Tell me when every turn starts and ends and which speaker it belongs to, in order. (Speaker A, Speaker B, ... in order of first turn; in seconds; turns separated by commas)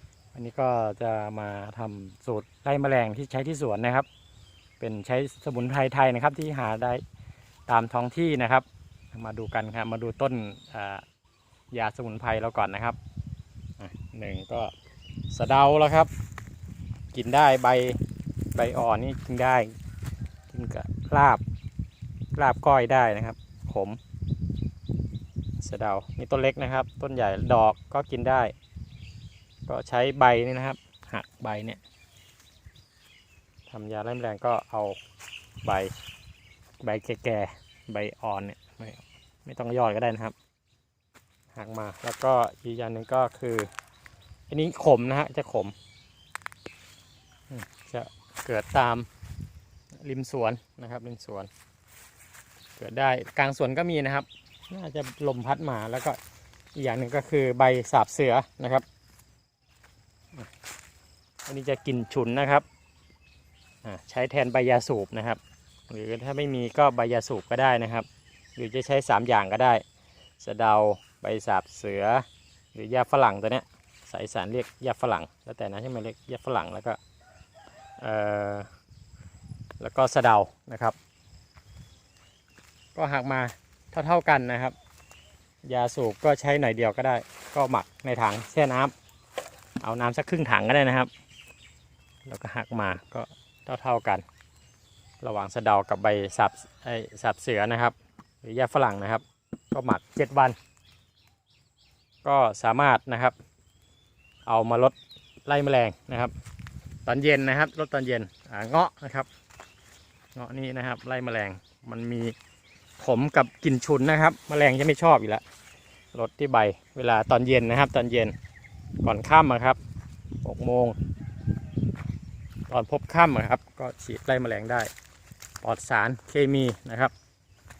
Speaker A: 0.3-4.1, Speaker A: 4.8-7.0, Speaker A: 7.7-11.0, Speaker A: 11.7-13.0, Speaker A: 13.8-14.7, Speaker A: 15.3-16.1, Speaker A: 17.1-18.0, Speaker A: 18.5-19.7, Speaker A: 20.5-21.4, Speaker A: 22.3-24.0, Speaker A: 25.6-28.5, Speaker A: 29.7-31.8, Speaker A: 33.7-35.0, Speaker A: 35.6-35.9, Speaker A: 36.8-40.3, Speaker A: 41.5-43.7, Speaker A: 44.5-45.7, Speaker A: 47.5-49.1, Speaker A: 50.0-51.5, Speaker A: 52.8-56.2, Speaker A: 56.7-58.8, Speaker A: 61.5-62.6, Speaker A: 63.8-69.8, Speaker A: 70.4-77.0, Speaker A: 78.0-78.7, Speaker A: 79.8-81.0, Speaker A: 82.9-84.7, Speaker A: 85.6-88.9, Speaker A: 89.8-91.1, Speaker A: 92.2-94.2, Speaker A: 95.2-100.6, Speaker A: 102.2-103.3, Speaker A: 104.5-106.3, Speaker A: 107.0-109.3, Speaker A: 110.3-112.3, Speaker A: 113.0-115.4, Speaker A: 116.1-118.3, Speaker A: 119.0-119.8, Speaker A: 120.4-121.0, Speaker A: 122.7-124.9, Speaker A: 125.6-127.1